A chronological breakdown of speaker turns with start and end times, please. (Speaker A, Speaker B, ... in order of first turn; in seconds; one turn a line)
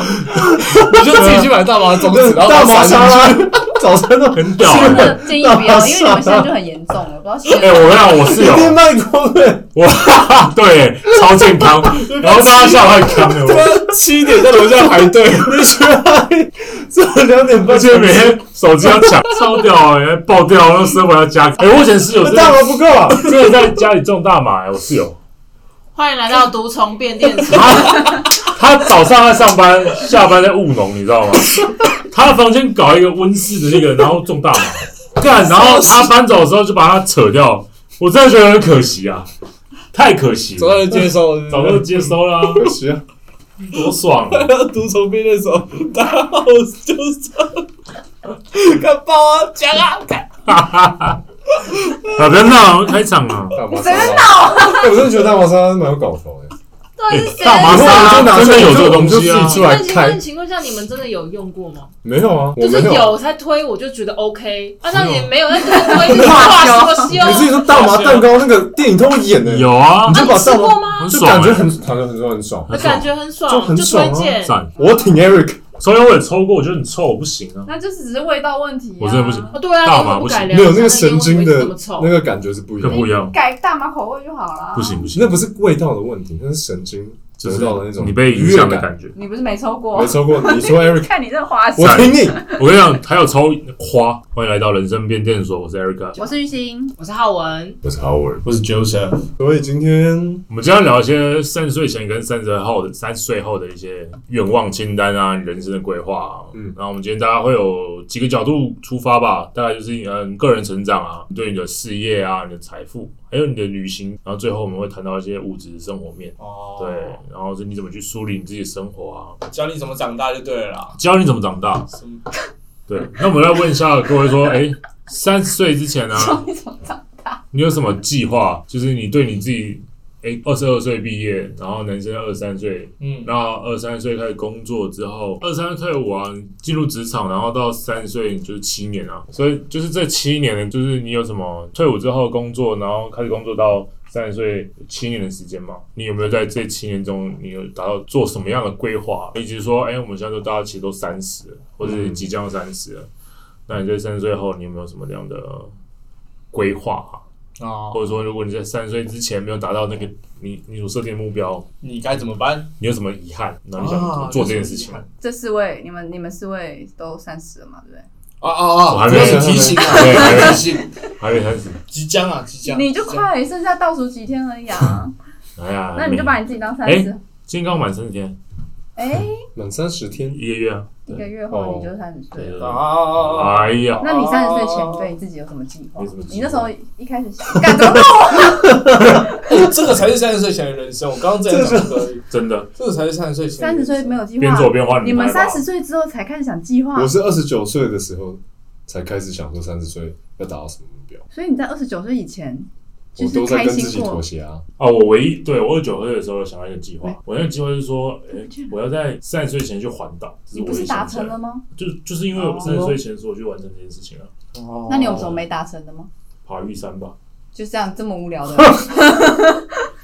Speaker A: 0.2-1.2
Speaker B: 0.7-3.6
Speaker A: 1.8-6.5
Speaker C: 4.3-5.2
Speaker D: 4.6-8.4
Speaker C: 7.5-8.8
Speaker A: 8.1-9.7
Speaker C: 9.7-13.7
Speaker B: 12.0-15.8
Speaker A: 14.6-19.2
Speaker C: 17.6-25.2
Speaker A: 22.2-23.3
Speaker E: 25.9-28.2
Speaker C: 27.5-39.3
Speaker B: 35.4-36.1
Speaker C: 39.9-42.7
Speaker B: 40.5-42.2
Speaker A: 42.5-43.0
Speaker C: 43.7-44.5
Speaker B: 44.3-47.6
Speaker B: 48.4-50.3
Speaker C: 50.5-51.2
Speaker B: 51.5-52.3
Speaker C: 52.1-53.6
Speaker A: 53.5-56.5
Speaker D: 53.7-55.0
Speaker E: 54.0-54.8
Speaker E: 57.0-61.9
Speaker C: 57.1-59.7
Speaker A: 57.6-60.2
Speaker A: 62.0-63.2
Speaker E: 62.5-67.7
Speaker A: 64.9-65.3
Speaker D: 65.8-67.2
Speaker A: 65.9-75.7
Speaker B: 67.6-68.3
Speaker C: 69.4-70.2
Speaker E: 70.1-71.2
Speaker C: 71.0-71.7
Speaker C: 72.7-73.0
Speaker E: 72.7-74.6
Speaker C: 74.4-74.7
Speaker D: 74.8-75.2
Speaker C: 75.8-77.7
Speaker D: 77.7-79.5
Speaker C: 79.0-80.7
Speaker E: 79.5-82.2
Speaker A: 80.5-83.1
Speaker C: 82.8-83.3
Speaker D: 82.8-85.1
Speaker C: 84.7-85.4
Speaker A: 85.1-88.9
Speaker C: 87.4-89.2
Speaker D: 89.1-92.7
Speaker A: 89.9-91.1
Speaker A: 91.7-92.5
Speaker C: 91.8-96.3
Speaker D: 96.2-96.9
Speaker E: 97.0-97.8
Speaker A: 97.8-98.4
Speaker B: 98.4-99.2
Speaker A: 99.4-100.4
Speaker C: 100.5-119.4
Speaker B: 116.4-117.2
Speaker B: 119.5-121.0
Speaker C: 121.0-121.9
Speaker B: 121.9-122.2
Speaker C: 122.9-126.4
Speaker D: 126.1-127.4
Speaker C: 127.5-153.1
Speaker B: 133.0-133.3
Speaker A: 151.8-152.2
Speaker C: 153.7-155.8
Speaker C: 156.5-157.2
Speaker B: 157.6-158.1
Speaker C: 157.9-161.7
Speaker B: 161.8-162.7
Speaker C: 162.8-165.1
Speaker B: 163.8-165.0
Speaker D: 165.2-168.1
Speaker B: 168.4-170.9
Speaker C: 168.8-171.8
Speaker A: 169.0-170.3
Speaker B: 171.9-173.3
Speaker D: 172.6-175.1
Speaker C: 175.6-178.4
Speaker D: 175.9-177.2
Speaker D: 178.9-179.4
Speaker A: 179.5-180.4
Speaker C: 180.3-181.2
Speaker D: 181.1-182.7
Speaker A: 181.5-181.9
Speaker C: 182.3-184.1
Speaker B: 182.6-185.1
Speaker D: 184.0-189.2
Speaker C: 186.0-186.7
Speaker A: 187.6-189.0
Speaker B: 189.4-192.2
Speaker A: 191.4-192.1
Speaker C: 192.3-192.7
Speaker B: 192.8-194.2
Speaker D: 193.6-197.1
Speaker C: 194.4-195.6
Speaker A: 196.9-201.2
Speaker D: 201.3-204.2
Speaker A: 203.1-204.6
Speaker C: 204.8-214.3
Speaker D: 208.3-208.7
Speaker D: 210.5-211.6
Speaker D: 212.3-212.9
Speaker B: 212.6-212.9
Speaker B: 214.5-215.4
Speaker D: 214.9-216.1
Speaker C: 215.0-215.4
Speaker C: 216.4-217.2
Speaker D: 217.5-219.8